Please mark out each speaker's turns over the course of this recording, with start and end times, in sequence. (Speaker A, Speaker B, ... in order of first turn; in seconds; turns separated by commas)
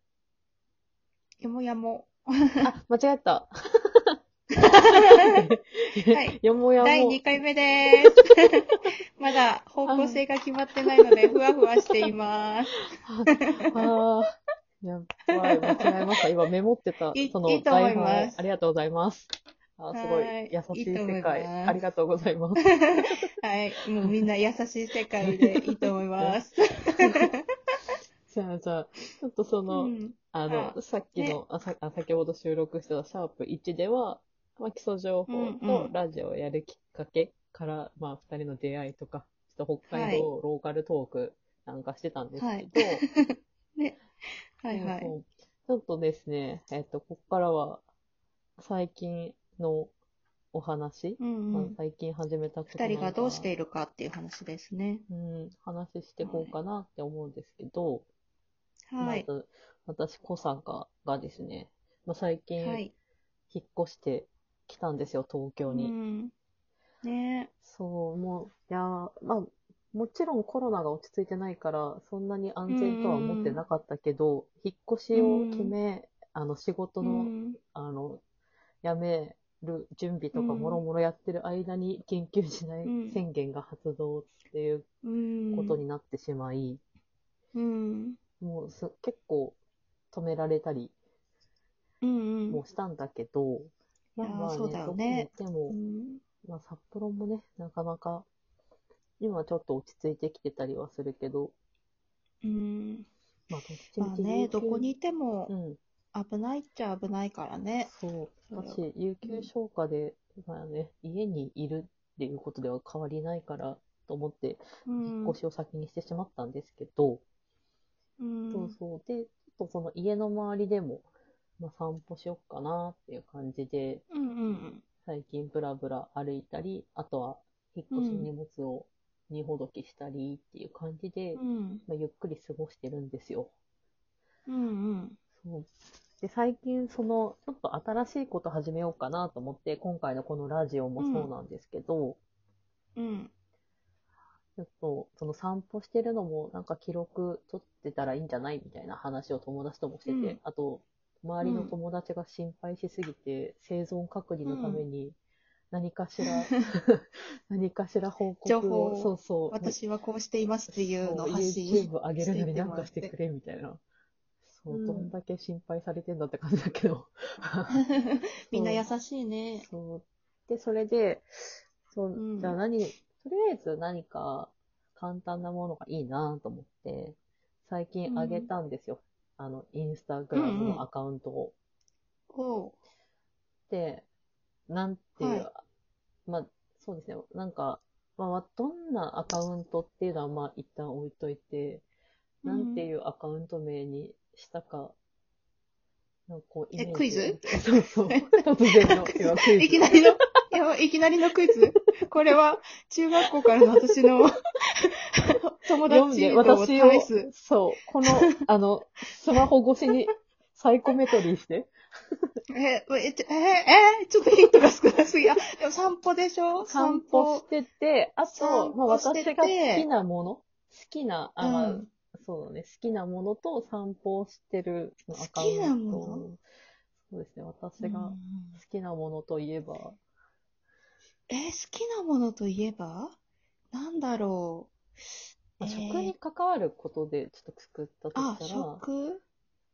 Speaker A: 1.4-2.7, Speaker B: 2.6-7.2, Speaker A: 4.6-5.4, Speaker A: 6.1-8.6, Speaker A: 9.2-12.8, Speaker B: 9.8-10.2, Speaker B: 13.0-23.1, Speaker A: 13.4-13.8, Speaker A: 15.6-15.9, Speaker A: 17.1-18.4, Speaker A: 19.9-21.8, Speaker A: 22.6-27.5, Speaker B: 25.2-26.4, Speaker B: 26.9-27.3, Speaker B: 28.3-43.0, Speaker A: 29.7-31.4, Speaker A: 35.3-35.9, Speaker A: 39.9-40.3, Speaker A: 42.4-44.0, Speaker A: 44.6-45.1, Speaker B: 44.7-47.8, Speaker B: 48.6-49.9, Speaker B: 50.5-53.5, Speaker A: 51.2-51.8, Speaker A: 52.7-55.0, Speaker B: 55.1-58.0, Speaker A: 56.2-56.5, Speaker A: 58.9-59.2, Speaker B: 59.0-62.8, Speaker A: 62.6-62.9, Speaker B: 63.5-65.9, Speaker A: 65.7-66.3, Speaker A: 67.0-67.5, Speaker B: 67.6-78.2, Speaker A: 72.7-73.6, Speaker A: 75.1-75.7, Speaker A: 77.0-77.6, Speaker B: 78.8-84.8, Speaker A: 80.3-80.8, Speaker A: 82.8-83.2, Speaker A: 85.0-85.8, Speaker B: 85.5-86.8, Speaker A: 87.5-88.2, Speaker B: 88.4-89.6, Speaker B: 90.1-90.9, Speaker A: 92.0-92.6, Speaker B: 92.5-95.8, Speaker A: 94.2-96.2, Speaker B: 96.4-98.2, Speaker B: 99.2-101.5, Speaker A: 102.4-103.1, Speaker B: 103.5-104.9, Speaker A: 104.0-105.5, Speaker B: 105.5-105.8, Speaker A: 106.1-107.9, Speaker B: 107.8-117.2, Speaker A: 108.5-109.5, Speaker A: 114.8-115.4, Speaker A: 118.2-118.7, Speaker B: 118.5-121.1, Speaker B: 121.6-124.0, Speaker A: 124.1-124.8, Speaker B: 125.0-133.5, Speaker A: 127.9-128.3, Speaker A: 131.3-131.8, Speaker A: 134.5-135.2, Speaker B: 135.4-135.7, Speaker B: 136.2-142.2, Speaker A: 141.0-141.3, Speaker A: 142.9-143.3, Speaker B: 144.6-155.2, Speaker A: 150.1-150.4, Speaker A: 151.4-151.7, Speaker A: 154.4-154.8, Speaker B: 155.7-159.8, Speaker A: 158.4-163.1, Speaker B: 160.9-163.8, Speaker B: 164.5-167.8, Speaker A: 164.7-165.1, Speaker A: 167.8-169.7, Speaker B: 168.5-168.8, Speaker B: 169.6-181.5, Speaker A: 172.1-172.6, Speaker A: 178.1-178.5, Speaker A: 180.3-180.8, Speaker A: 182.3-182.8, Speaker B: 183.7-184.1, Speaker B: 184.7-185.6, Speaker A: 185.2-185.5, Speaker B: 186.3-191.8, Speaker A: 192.4-192.9, Speaker B: 192.4-194.9, Speaker B: 196.3-200.0, Speaker A: 196.8-207.3, Speaker B: 203.2-203.5, Speaker B: 205.8-212.2, Speaker A: 212.5-217.4, Speaker B: 216.6-226.4, Speaker A: 218.3-219.9, Speaker A: 221.4-221.9, Speaker A: 225.2-226.3, Speaker B: 227.1-230.0, Speaker A: 227.8-228.6, Speaker A: 231.3-233.2, Speaker A: 233.7-234.8, Speaker A: 235.6-236.1, Speaker B: 235.6-238.8, Speaker A: 238.1-239.2